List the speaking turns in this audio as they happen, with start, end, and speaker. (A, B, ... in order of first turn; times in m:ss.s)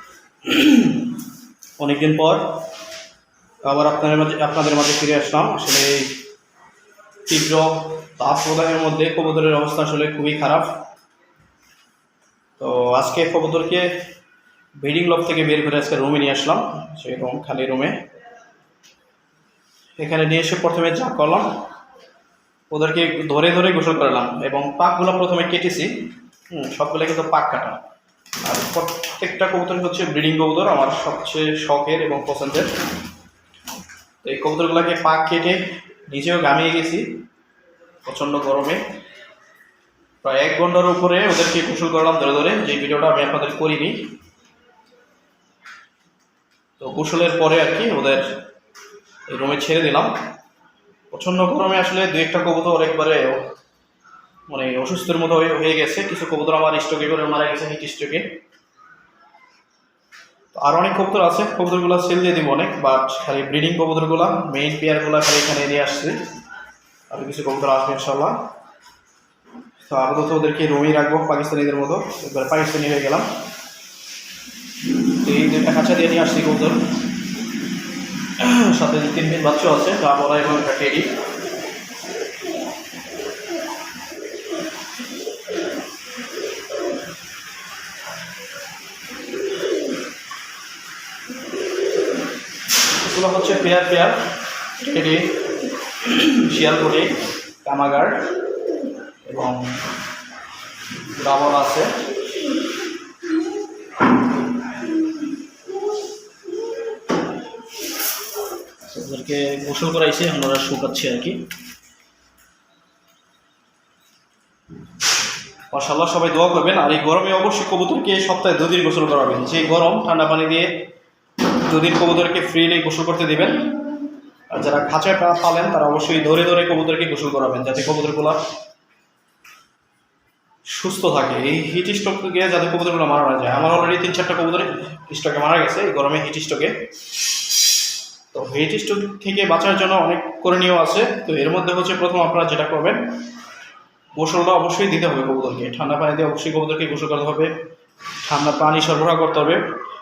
0:00.4-0:01.1 A
0:01.8-0:02.5 A
0:03.6-0:06.2 A
0:07.3-0:10.7 A
0:12.6-0:13.9 A
0:14.8-0:18.0 A
0:20.0-0:21.5 A
0:22.7-0:25.9 A
0:26.5-0:27.8 A
0:28.4-0:32.7 A
0:34.2-0:37.1 A
0:38.0-0:38.8 A
0:40.2-0:44.0 A
0:46.8-0:48.2 A
0:49.3-0:50.1 A
0:51.1-0:53.4 A
0:54.5-0:58.3 A
1:00.5-1:06.2 A
1:07.1-1:08.4 A
1:09.9-1:13.3 A
1:15.2-1:16.8 A
1:18.4-1:21.1 A
1:33.0-1:34.2 A
1:34.8-1:35.4 A
1:36.0-1:38.3 A
1:39.3-1:39.8 A
1:41.2-1:41.9 A
1:48.8-1:51.4 A
1:55.7-2:00.7 A
2:01.7-2:03.7 A
2:04.5-2:08.4 A
2:10.7-2:16.8 A
2:18.3-2:23.0 A
2:24.2-2:27.5 A
2:28.2-2:29.6 A